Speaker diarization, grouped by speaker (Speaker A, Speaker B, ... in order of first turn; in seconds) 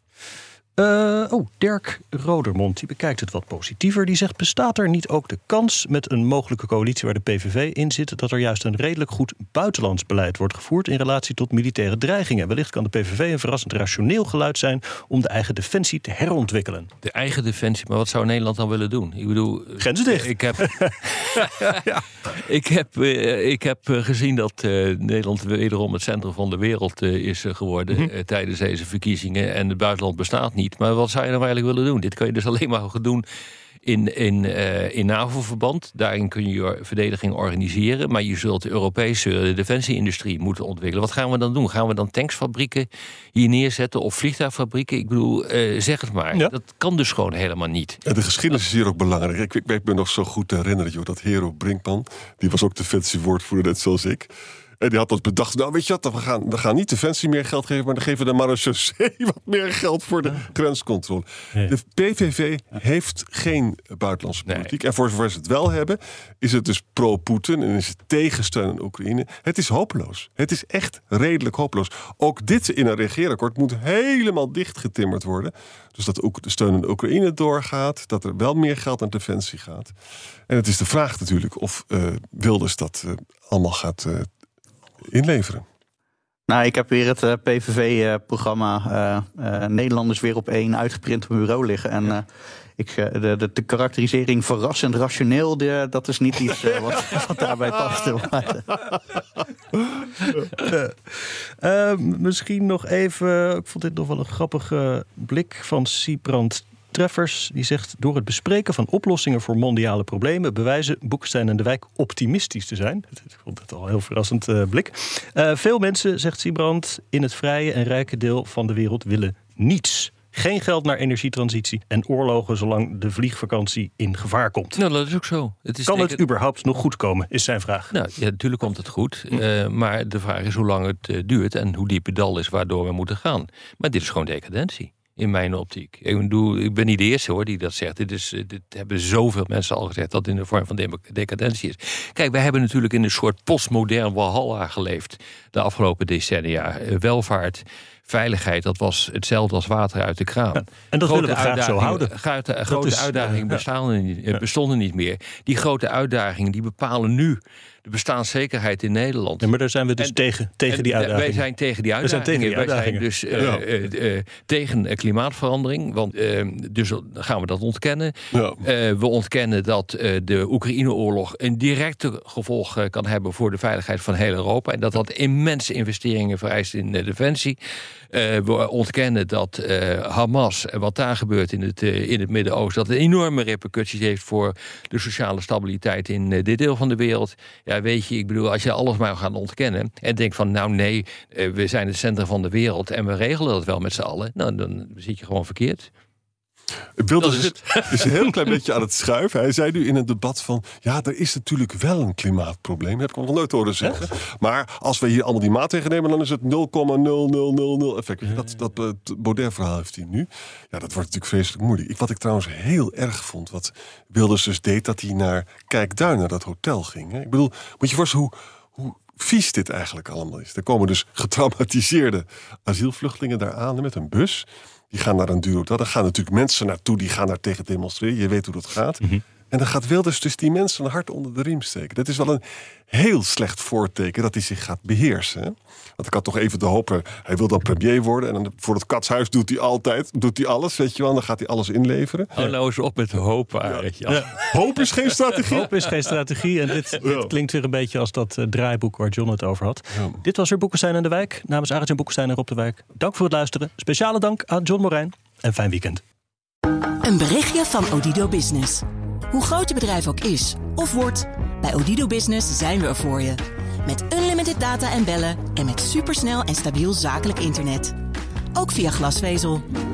Speaker A: 0.8-16.9, 19.8-22.1, 100.4-124.8, 125.9-127.9, 150.9-152.1, 152.7-153.6, 159.4-161.4, 162.0-163.1, 245.4-256.0
Speaker B: 17.0-33.2, 33.8-48.0, 64.5-64.7, 124.8-126.2, 127.9-177.6, 178.1-195.9, 197.2-198.1, 242.4-244.8
Speaker C: 48.0-54.3, 54.8-79.9, 80.5-84.3, 85.0-85.7, 163.4-163.7, 168.3-168.6, 197.0-242.3, 244.4-245.7, 247.0-247.3, 249.9-250.2
Speaker D: 86.5-92.2, 92.8-98.9
Speaker E: 257.0-267.9, 268.5-269.7